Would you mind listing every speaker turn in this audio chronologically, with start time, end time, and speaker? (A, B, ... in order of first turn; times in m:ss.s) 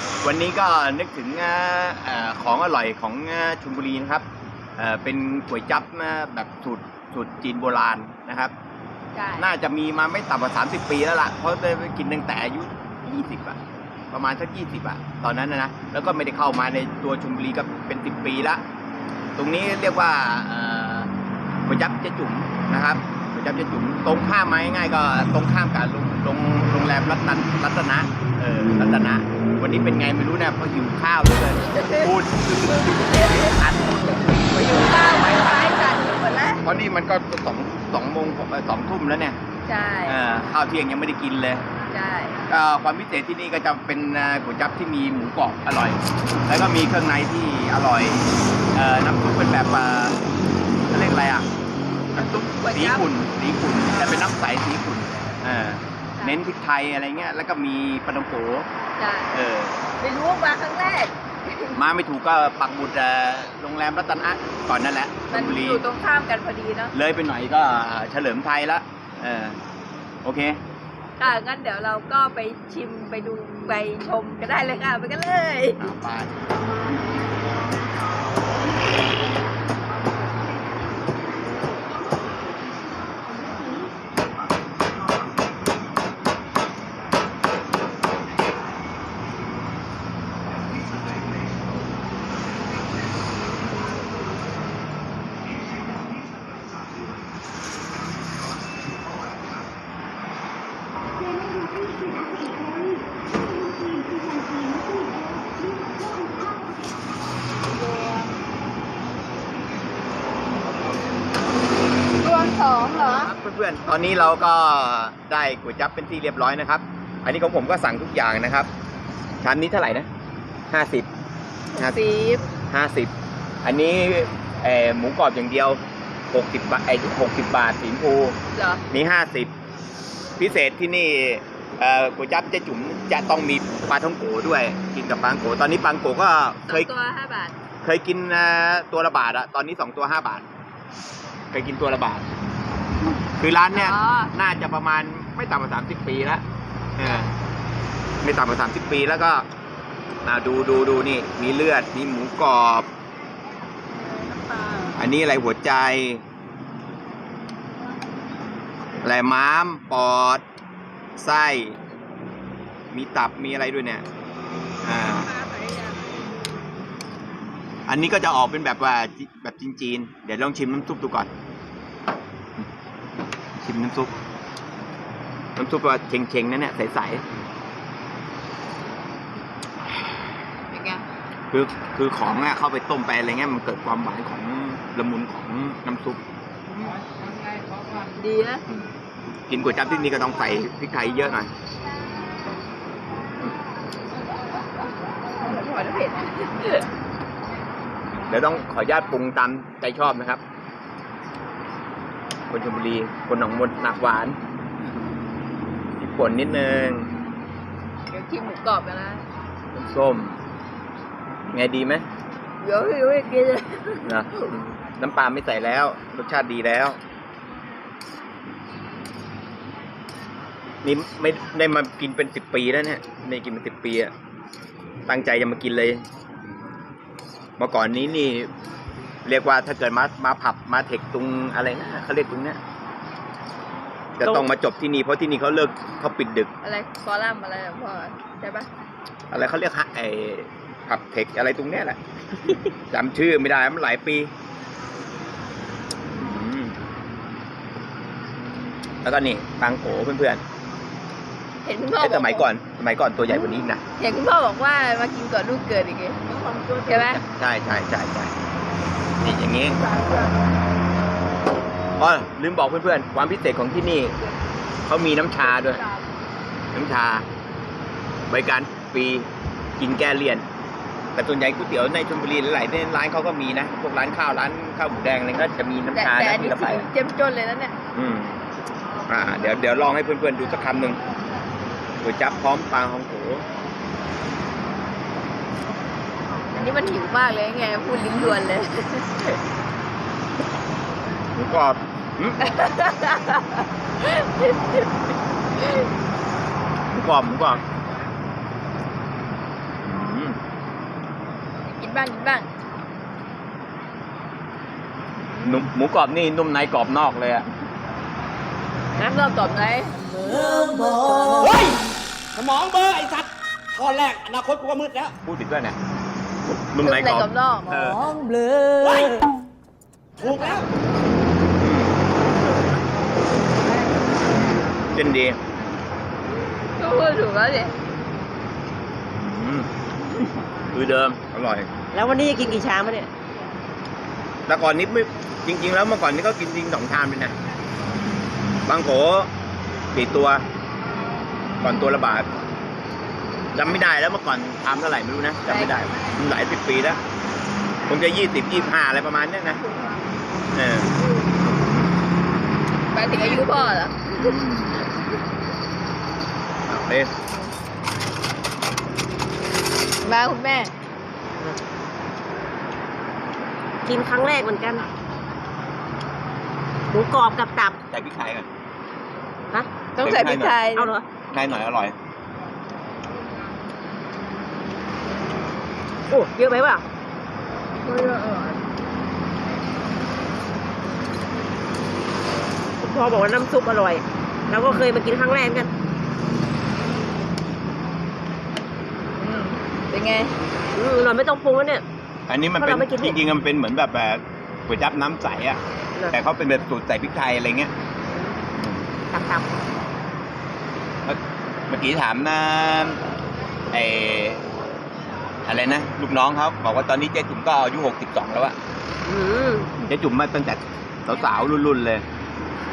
0:00.2-0:04.2 A
0:04.8-0:08.5 A
0:09.1-0:09.5 B
0:09.4-0:13.6 A
0:14.1-0:18.6 A
0:19.4-0:21.1 A
0:21.6-0:35.7 A
0:31.7-0:32.1 B
0:32.8-0:36.6 B
0:36.6-0:39.4 A
0:39.6-0:40.2 B
0:40.0-0:41.6 A
0:41.9-0:42.5 B
0:42.5-0:50.2 A
0:50.9-0:51.5 A
0:52.1-0:53.1 B
0:52.1-0:58.7 A
0:53.9-0:54.3 B
0:59.0-0:59.3 B
0:59.3-0:59.8 A
1:00.0-1:01.8 B
1:01.7-1:05.8 A
1:05.3-1:06.9 B
1:06.9-1:09.6 A
1:10.2-1:10.6 A
1:11.2-1:15.8 B
1:15.8-1:16.4 A
1:52.2-1:53.3 B
1:53.0-1:58.7 A
1:59.4-2:00.1 A
2:00.7-2:01.1 A
2:01.8-2:02.4 B
2:02.7-2:03.1 A
2:03.6-2:08.4 A
2:08.5-2:08.8 B
2:08.9-2:09.5 A
2:10.4-2:16.9 A
2:16.7-2:17.5 B
2:17.8-2:20.5 A
2:21.5-2:22.3 A
2:23.4-2:26.4 A
2:23.7-2:24.3 B
2:27.0-2:27.3 A
2:27.0-2:27.3 B
2:28.2-2:29.4 A
2:30.2-2:32.9 A
2:34.2-2:34.9 B
2:35.0-2:36.2 A
2:39.0-2:40.4 A
2:41.2-2:41.8 A
2:42.9-2:44.0 A
2:44.8-2:45.3 A
2:45.1-2:46.0 B
2:47.9-2:51.3 A
2:53.6-2:54.1 A
2:55.6-2:57.2 A
3:00.7-3:01.0 B
3:01.5-3:06.2 A
3:08.1-3:08.6 B
3:09.5-3:11.5 A
3:15.4-3:16.9 B
3:18.2-3:20.4 A
3:22.5-3:24.4 A
3:26.0-3:27.1 A
3:28.1-3:29.2 B
3:29.7-3:30.4 A
3:31.5-3:32.0 A
3:32.6-3:34.7 B
3:34.0-3:37.0 A
3:40.8-3:44.1 A
3:45.1-3:46.0 A
3:47.6-3:48.5 A
3:49.2-3:52.6 A
3:54.2-3:56.5 A
3:54.2-3:54.5 C
3:56.6-3:58.7 B
3:59.3-4:02.0 A
4:02.9-4:04.3 A
4:06.1-4:06.8 A
4:09.0-4:10.4 A
4:11.6-4:12.4 B
4:12.0-4:13.8 A
4:14.0-4:16.2 B
4:16.3-4:17.0 C
4:16.8-4:17.2 B
4:17.0-4:18.3 A
4:19.2-4:19.8 A
4:19.8-4:20.4 B
4:22.0-4:24.2 A
4:24.9-4:25.8 A
4:25.5-4:26.0 B
4:26.7-4:27.3 A
4:28.3-4:30.4 A
4:31.2-4:36.9 A
4:35.9-4:37.7 B
4:37.9-4:38.4 A
4:39.1-4:41.0 A
4:42.0-4:43.4 A
4:46.5-4:49.4 B
4:51.3-4:52.4 A
4:52.4-4:54.8 B
4:56.9-4:57.6 A
4:59.8-5:00.4 A
5:01.7-5:02.5 B
5:05.4-5:07.5 A
5:09.0-5:10.0 B
5:11.3-5:11.8 D
5:12.3-5:15.1 D
5:15.2-5:15.8 A
5:16.7-5:18.1 A
5:16.8-5:17.8 B
5:18.8-5:19.2 D
5:20.2-5:20.7 D
5:21.6-5:22.0 A
5:24.9-5:25.4 A
5:26.6-5:27.7 B
5:29.1-5:31.7 A
5:31.9-5:33.1 C
5:34.5-5:37.4 A
5:38.6-5:39.3 A
5:39.9-5:40.4 A
5:41.6-5:42.3 A
5:43.5-5:47.0 A
5:45.5-5:45.7 B
5:47.9-5:49.6 A
5:49.6-5:50.0 B
5:50.5-5:50.9 A
5:52.9-5:54.3 B
5:54.1-5:54.9 A
5:56.7-5:57.1 A
6:00.0-6:00.7 B
6:03.8-6:04.8 C
6:06.9-6:07.8 C
6:07.9-6:08.5 A
6:10.0-6:10.9 B
6:10.0-6:10.6 A
6:10.8-6:11.1 C
6:11.3-6:12.0 A
6:16.1-6:16.8 C
6:17.8-6:18.6 B
6:22.8-6:25.7 C
6:29.2-6:30.3 B
6:30.7-6:31.8 C
6:32.3-6:35.6 A
6:32.6-6:33.2 C
6:36.1-6:37.7 A
6:38.1-6:38.4 C
6:38.5-6:38.8 A
6:39.1-6:39.4 C
6:41.0-6:43.0 A
6:43.7-6:44.4 A
6:45.4-6:48.6 A
6:49.0-6:49.7 C
6:49.8-6:52.0 A